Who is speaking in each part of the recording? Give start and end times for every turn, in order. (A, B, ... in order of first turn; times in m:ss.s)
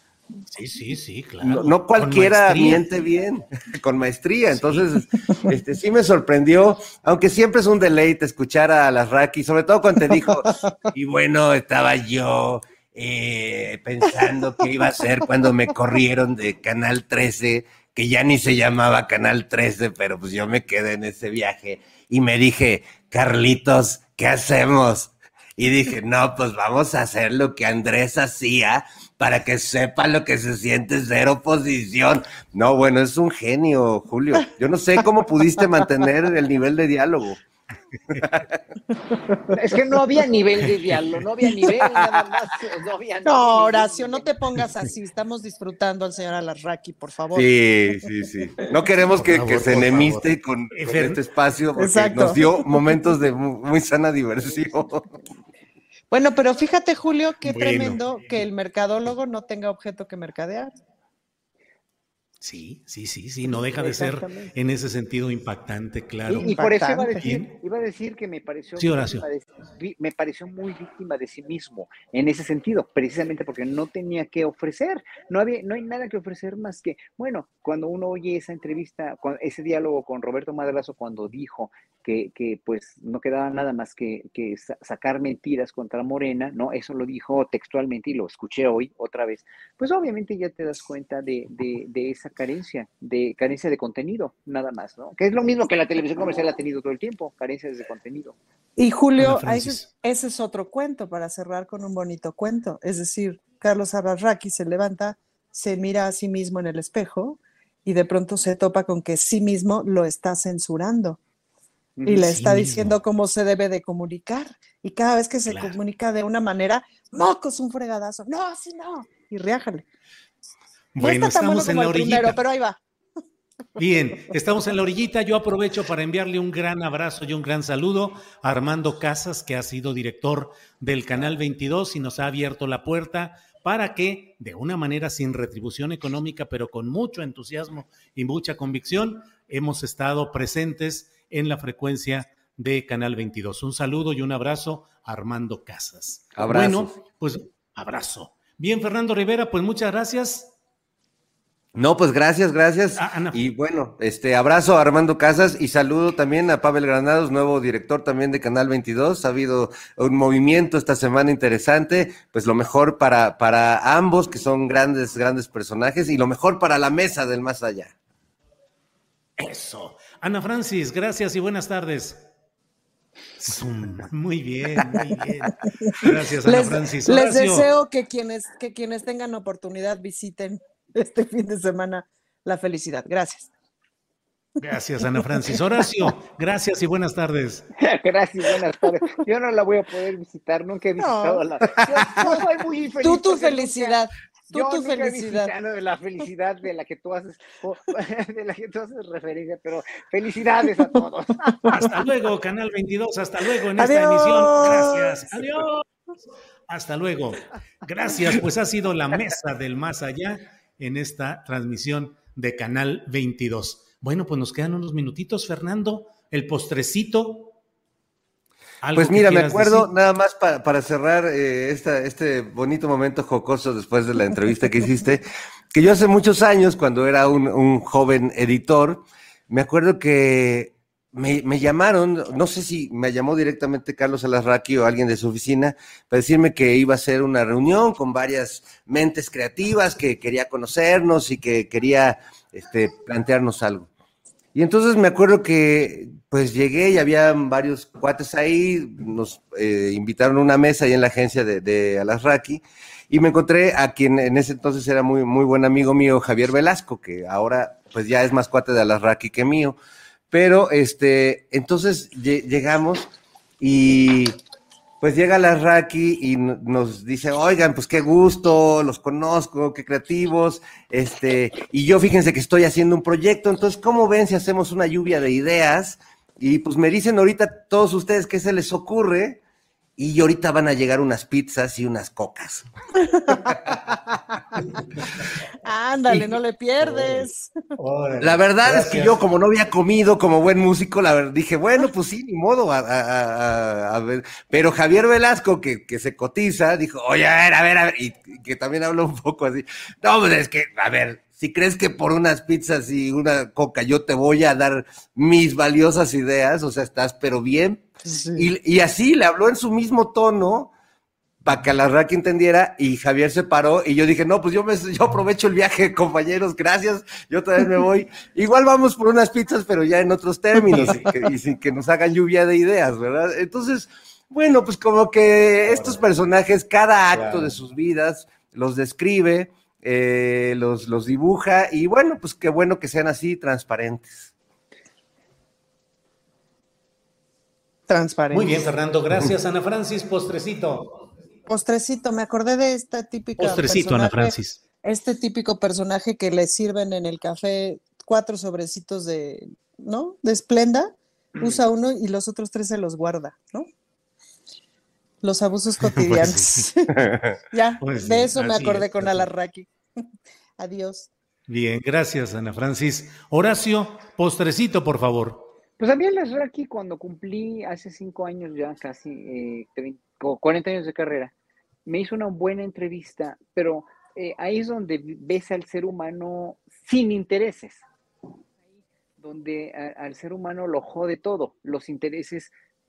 0:00.5-0:02.8 A
0:01.4-0:37.4 B
0:04.5-0:04.8 A
0:38.1-0:38.4 B
0:39.0-0:39.6 C
0:39.5-0:44.3 D
0:43.2-0:47.5 C
0:47.3-0:55.1 B
0:49.1-0:51.2 A
0:51.8-0:52.6 C
0:56.1-1:00.7 C
0:57.4-0:58.0 A
1:02.4-1:06.5 A
1:03.7-1:04.5 D
1:06.3-1:38.4 D
1:06.5-1:07.3 C
1:07.2-1:07.5 A
1:08.8-1:09.2 A
1:38.8-1:51.2 C
1:39.2-1:39.9 A
1:52.0-1:52.3 D
1:52.0-1:59.8 C
1:52.2-1:53.0 A
1:55.5-1:55.8 A
2:00.9-2:02.4 A
2:01.0-2:02.8 C
2:03.8-2:30.5 A
2:26.4-2:26.9 B
2:31.7-2:47.9 B
2:33.0-2:33.4 A
2:49.4-2:52.2 A
2:53.4-2:57.7 A
2:56.4-3:03.5 C
3:04.6-3:07.7 A
3:05.0-3:05.6 C
3:07.8-3:14.0 D
3:11.0-3:11.4 C
3:12.0-3:12.4 C
3:13.0-3:15.5 C
3:14.5-3:21.7 D
3:21.4-3:21.8 C
3:21.7-3:25.8 A
3:23.8-3:25.3 C
3:26.7-3:37.5 A
3:38.8-3:39.9 A
3:38.9-4:03.9 B
4:04.5-4:19.8 B
4:20.3-4:23.1 B
4:23.6-4:24.4 B
4:25.0-4:39.4 B
4:40.0-4:42.6 B
4:43.0-4:43.4 C
4:45.6-4:47.5 C
4:46.1-4:49.2 A
4:48.2-5:10.7 B
5:08.0-5:08.5 C
5:11.4-5:34.3 B
5:20.7-5:21.2 A
5:25.6-5:26.0 A
5:27.1-5:27.6 A
5:37.9-5:38.7 C
5:38.3-5:41.0 A
5:41.5-5:53.7 C
5:43.4-5:44.6 A
5:55.2-5:59.7 C
5:55.8-5:56.7 A
5:57.8-5:59.3 A
6:00.6-6:01.1 C
6:01.5-6:05.5 A
6:05.8-6:11.3 D
6:11.8-6:17.8 D
6:19.2-6:22.5 D